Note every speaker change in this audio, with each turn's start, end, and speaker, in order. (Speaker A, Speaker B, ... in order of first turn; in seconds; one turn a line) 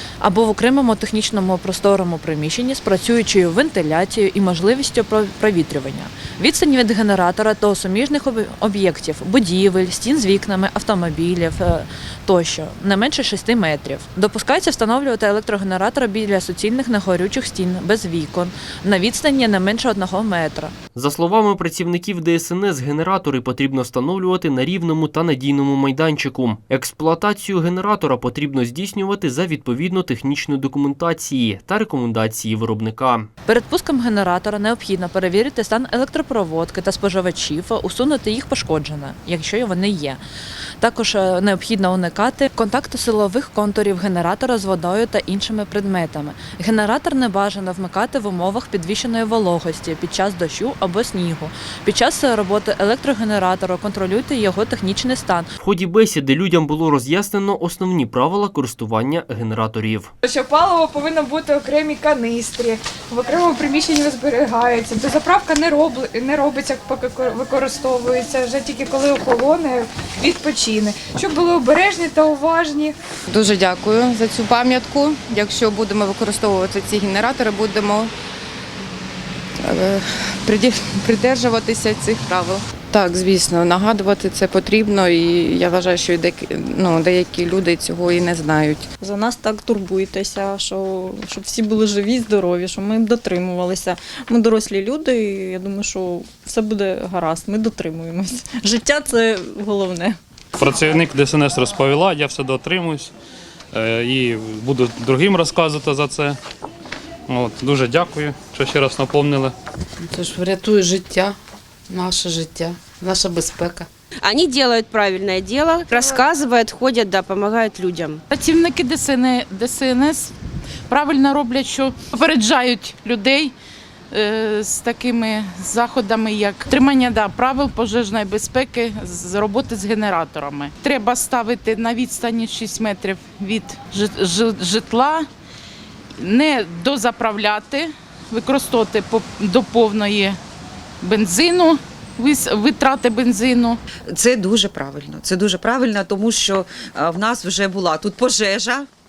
Speaker A: 0.2-20.7
Speaker B: 20.9-33.3
Speaker A: 33.5-40.2
Speaker A: 40.8-55.5
Speaker B: 55.6-60.1
Speaker C: 60.2-73.0
Speaker D: 73.3-78.1
Speaker D: 79.6-88.9
Speaker E: 89.0-100.2
Speaker F: 100.6-103.1
Speaker F: 103.7-106.4
Speaker F: 107.3-109.5
Speaker G: 110.1-111.4
Speaker G: 111.9-113.9
Speaker H: 114.2-118.2
Speaker I: 118.3-120.3
Speaker I: 120.9-123.5
Speaker I: 124.1-135.2
Speaker I: 136.2-140.4
Speaker I: 141.0-143.8
Speaker J: 144.1-148.9